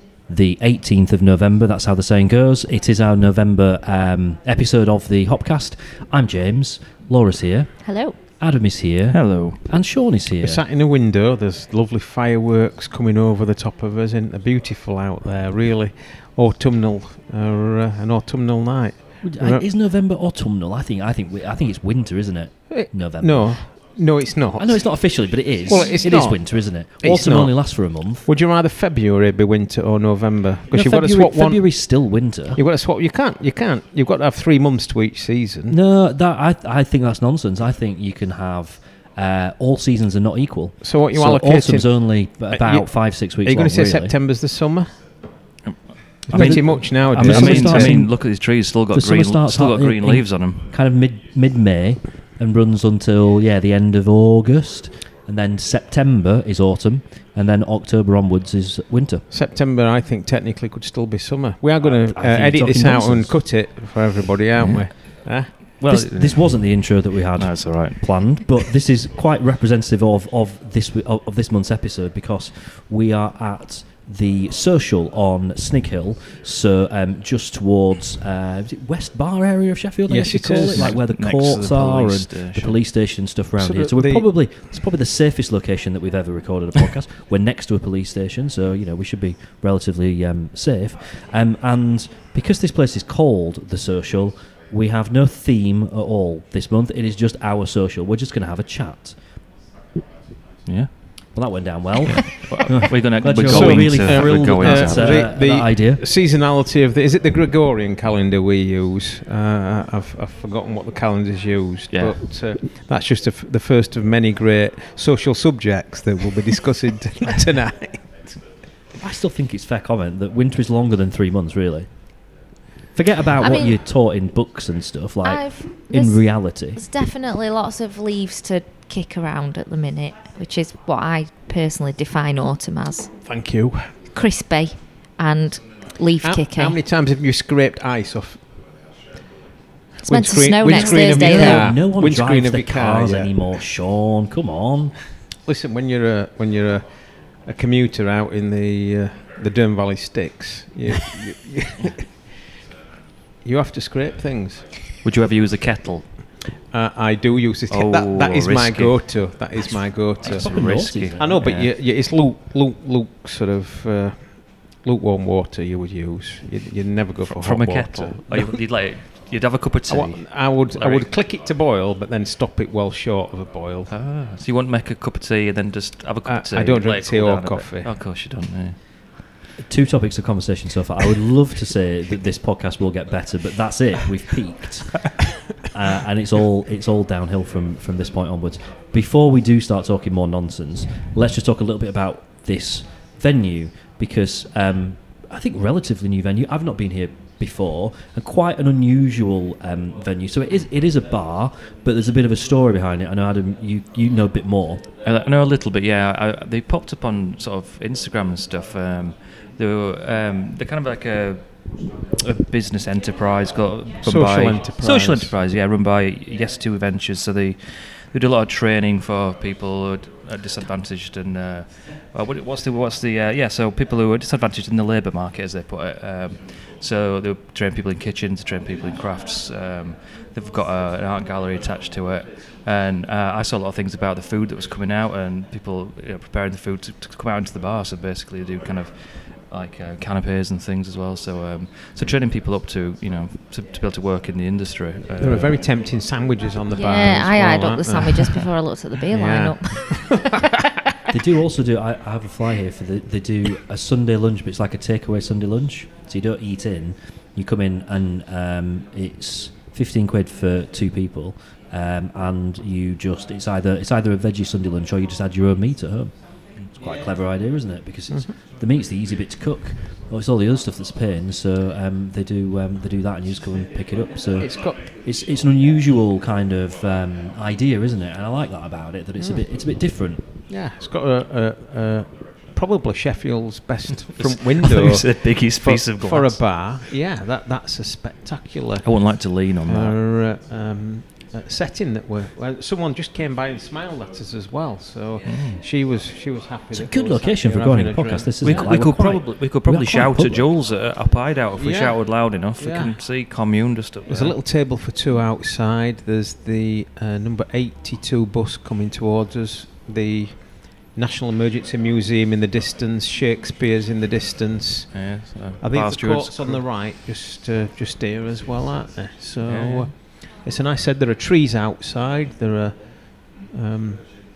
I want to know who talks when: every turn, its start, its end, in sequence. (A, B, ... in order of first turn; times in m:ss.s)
0:00.3-0:07.7 A
0:07.8-0:08.2 B
0:08.4-0:10.6 A
0:09.1-0:09.6 C
0:10.4-0:19.7 D
0:19.2-0:23.7 A
0:22.7-0:25.0 D
0:24.6-0:28.3 A
0:25.7-0:31.8 D
0:30.7-0:32.6 A
0:32.6-0:35.8 D
0:35.7-0:44.1 A
0:40.8-0:45.0 D
0:45.6-0:50.7 C
0:46.3-0:48.0 D
0:46.3-0:48.4 A
0:48.9-0:59.2 A
0:59.3-1:05.6 D
1:01.8-1:03.5 A
1:04.6-1:05.0 C
1:05.8-1:39.2 A
1:05.8-1:06.7 C
1:07.4-1:08.3 C
1:20.1-1:21.0 D
1:20.7-1:22.8 C
1:23.6-1:24.3 D
1:40.7-1:40.9 C
1:41.3-1:46.0 A
1:42.1-1:45.3 C
1:43.4-1:58.4 D
1:51.9-1:52.2 C
1:59.0-2:02.1 A
2:02.9-2:06.8 A
2:03.4-2:03.8 B
2:05.2-2:13.1 B
2:13.2-2:14.0 D
2:14.1-2:16.8 B
2:16.2-2:18.4 D
2:20.0-2:23.5 D
2:20.1-2:21.7 B
2:20.7-2:25.0 A
2:25.4-2:32.2 D
2:33.4-2:34.8 D
2:35.0-2:36.1 C
2:36.5-2:40.6 D
2:37.7-2:39.1 C
2:40.2-2:41.7 C
2:40.2-2:41.3 A
2:41.2-2:48.6 D
2:47.2-2:51.1 C
2:49.9-2:53.9 D
2:53.9-2:58.8 C
2:56.3-2:58.0 D
2:59.6-3:24.8 A
3:25.0-4:05.6 C
3:34.0-3:35.3 D
4:05.2-4:08.5 D
4:06.7-4:10.4 B
4:09.1-4:10.4 D
4:11.1-4:40.2 A
4:34.4-4:34.8 D
4:39.2-4:39.5 D
4:40.5-4:49.1 D
4:44.2-4:46.4 C
4:48.8-4:50.0 C
4:49.6-4:58.8 D
4:55.2-4:55.6 C
4:56.7-5:00.5 A
4:58.4-5:04.4 C
5:01.6-5:03.0 D
5:04.1-5:15.1 D
5:14.9-5:16.6 C
5:15.6-5:24.1 D
5:19.4-5:19.9 C